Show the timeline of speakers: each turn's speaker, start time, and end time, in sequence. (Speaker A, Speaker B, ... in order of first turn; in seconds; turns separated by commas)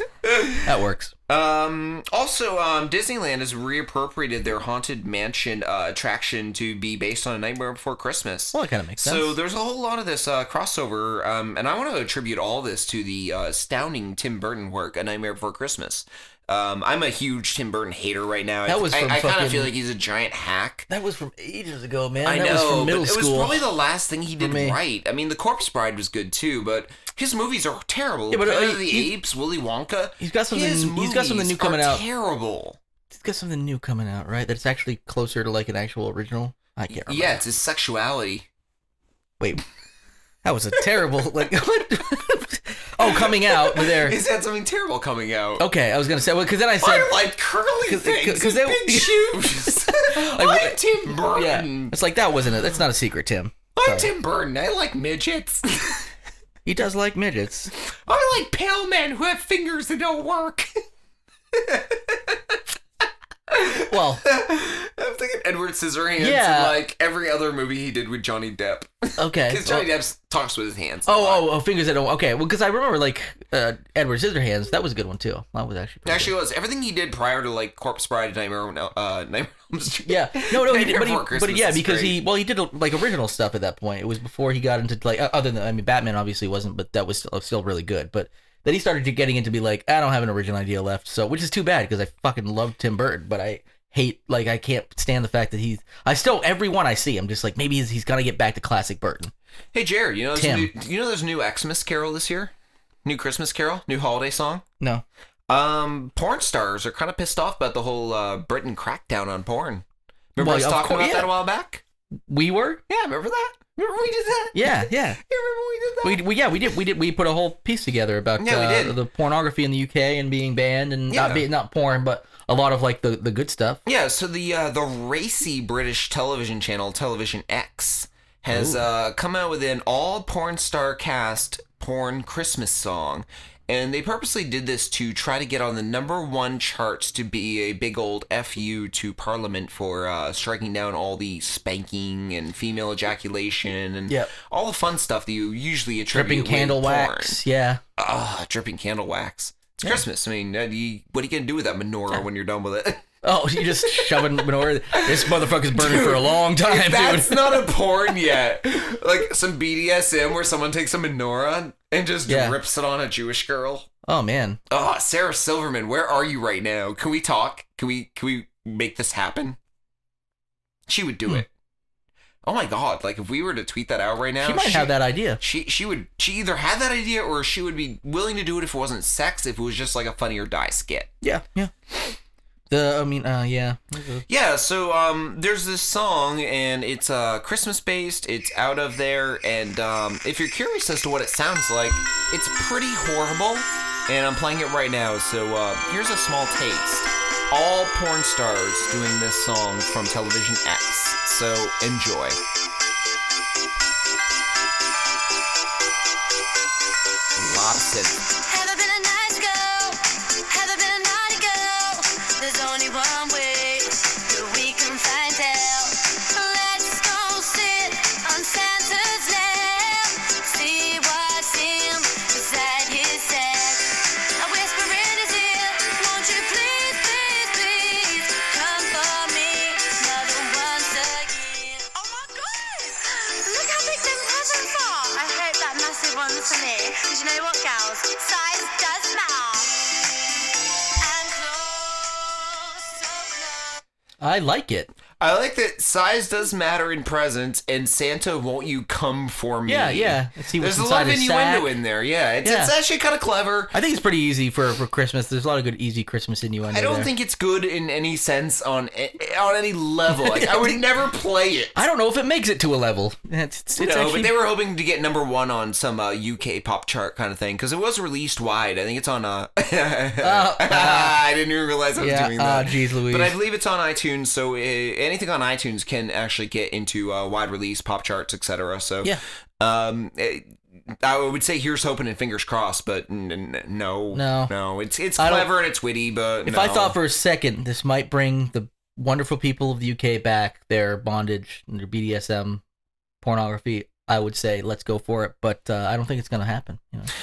Speaker A: 0.2-0.6, Speaker B: 0.6-1.1, Speaker A: 1.3-20.9, Speaker B: 8.5-9.3, Speaker B: 18.7-19.7, Speaker B: 20.9-23.6, Speaker A: 22.2-32.8, Speaker B: 24.4-24.8, Speaker B: 28.3-29.1, Speaker B: 30.2-32.0, Speaker B: 33.1-37.4, Speaker A: 36.9-38.5, Speaker B: 39.4-39.6, Speaker B: 40.4-44.2, Speaker A: 43.0-45.6, Speaker B: 45.6-47.1, Speaker A: 46.8-51.9, Speaker B: 47.9-54.1, Speaker A: 53.7-56.1, Speaker B: 56.6-57.7, Speaker A: 58.0-60.8, Speaker A: 61.5-62.6, Speaker A: 63.5-71.5, Speaker B: 63.9-64.2, Speaker B: 66.2-66.8, Speaker B: 69.2-69.9, Speaker B: 71.0-76.3, Speaker A: 76.0-82.2, Speaker B: 80.0-99.3, Speaker A: 99.7-102.5, Speaker B: 100.3-100.7, Speaker A: 103.0-104.6, Speaker A: 105.5-111.8, Speaker B: 110.4-111.3, Speaker B: 112.3-112.8, Speaker A: 112.9-116.2, Speaker B: 114.5-115.2, Speaker B: 116.0-123.8, Speaker A: 118.4-119.0, Speaker A: 121.1-121.4, Speaker A: 123.8-147.4, Speaker B: 128.5-128.8, Speaker B: 146.1-147.8, Speaker A: 148.0-153.0, Speaker B: 153.2-157.7, Speaker A: 154.0-154.2, Speaker A: 154.9-163.9, Speaker B: 162.3-162.6, Speaker B: 164.1-164.6, Speaker A: 164.7-169.6, Speaker A: 170.9-171.5, Speaker A: 172.4-181.1, Speaker B: 174.4-175.4, Speaker B: 181.2-181.7, Speaker B: 182.7-184.2, Speaker A: 184.3-202.4, Speaker A: 207.3-208.2, Speaker C: 208.4-240.0, Speaker C: 241.0-243.8, Speaker B: 244.2-244.9, Speaker A: 245.2-253.7, Speaker B: 249.7-251.7, Speaker B: 252.4-252.7, Speaker B: 253.7-257.1, Speaker A: 256.7-261.7, Speaker B: 260.2-260.7, Speaker B: 261.7-264.3, Speaker A: 263.8-286.9, Speaker B: 270.2-271.2, Speaker B: 272.0-273.3, Speaker B: 284.1-284.5, Speaker B: 285.2-285.5, Speaker B: 286.4-292.6, Speaker B: 293.2-297.1